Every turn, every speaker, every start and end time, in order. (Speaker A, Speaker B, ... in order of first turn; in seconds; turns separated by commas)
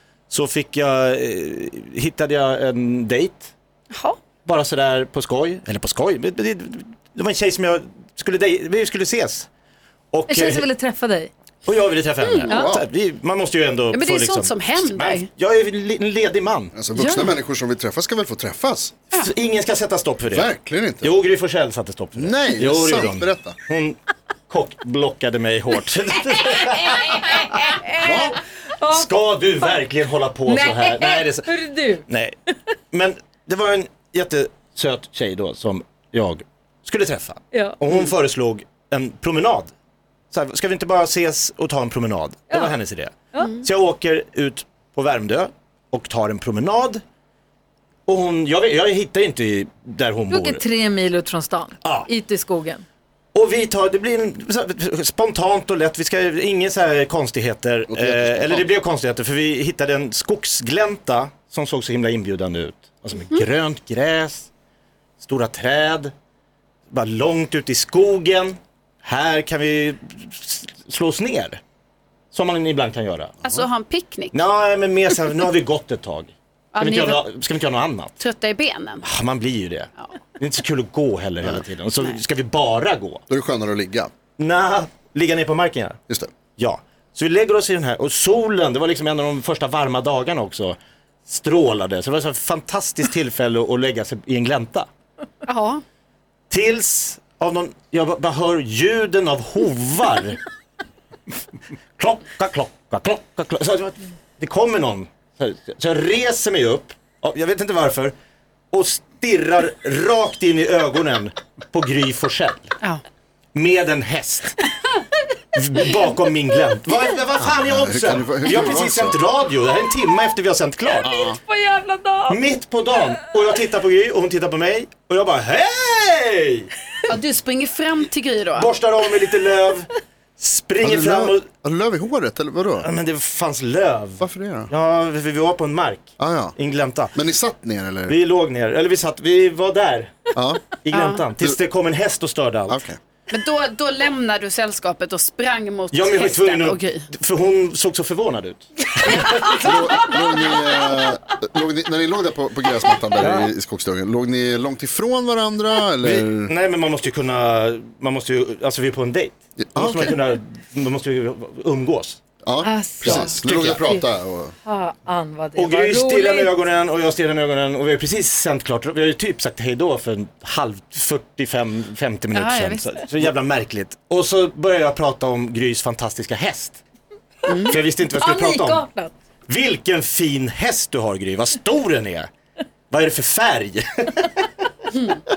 Speaker A: 0.3-3.5, Speaker A: 4.5-9.5, Speaker A: 10.1-10.7, Speaker B: 10.3-11.3, Speaker A: 11.7-16.8, Speaker C: 12.2-12.5, Speaker D: 12.5-12.8, Speaker C: 13.9-15.3, Speaker D: 16.7-18.9, Speaker C: 16.9-17.4, Speaker A: 19.2-24.0, Speaker D: 20.3-21.1, Speaker D: 22.1-23.6, Speaker A: 24.5-27.6, Speaker B: 26.5-29.1, Speaker D: 28.0-28.4, Speaker A: 28.9-31.5, Speaker B: 30.5-32.1, Speaker A: 32.1-32.3, Speaker A: 32.9-39.7, Speaker B: 37.5-37.8, Speaker A: 40.3-47.0, Speaker B: 43.3-43.6, Speaker A: 48.1-50.6, Speaker B: 50.3-52.8, Speaker A: 51.8-52.1, Speaker A: 53.3-64.5, Speaker D: 57.9-58.7, Speaker A: 65.2-66.1, Speaker A: 66.9-71.6, Speaker A: 72.3-73.4, Speaker C: 73.4-74.4, Speaker A: 74.3-78.1, Speaker C: 76.7-77.3, Speaker C: 78.2-79.0, Speaker A: 79.0-83.2, Speaker D: 83.3-84.1, Speaker A: 84.4-94.9, Speaker C: 95.5-95.8, Speaker A: 96.5-100.4, Speaker A: 102.0-108.1, Speaker A: 108.7-112.7, Speaker A: 113.5-114.6, Speaker A: 115.5-121.2, Speaker D: 117.4-119.2, Speaker B: 121.0-122.4, Speaker D: 121.0-121.4, Speaker A: 122.3-126.7, Speaker C: 127.1-128.8, Speaker A: 128.6-131.4, Speaker D: 130.8-132.9, Speaker A: 132.8-137.1, Speaker D: 134.2-134.7, Speaker D: 136.2-136.6, Speaker D: 137.2-138.2, Speaker A: 138.1-142.8, Speaker D: 140.3-140.7, Speaker C: 140.9-141.3, Speaker D: 142.7-143.0, Speaker C: 143.3-147.1, Speaker A: 145.9-149.7, Speaker D: 149.4-156.5, Speaker A: 153.2-153.5, Speaker A: 156.0-162.2, Speaker D: 159.6-160.2, Speaker D: 162.4-164.5, Speaker C: 162.6-163.1, Speaker B: 162.7-164.0, Speaker A: 163.0-163.8, Speaker B: 164.6-166.5, Speaker A: 165.6-176.8, Speaker C: 172.3-173.0, Speaker C: 177.5-177.8, Speaker A: 177.7-178.9, Speaker B: 178.1-179.1, Speaker A: 179.5-182.3, Speaker A: 182.9-184.7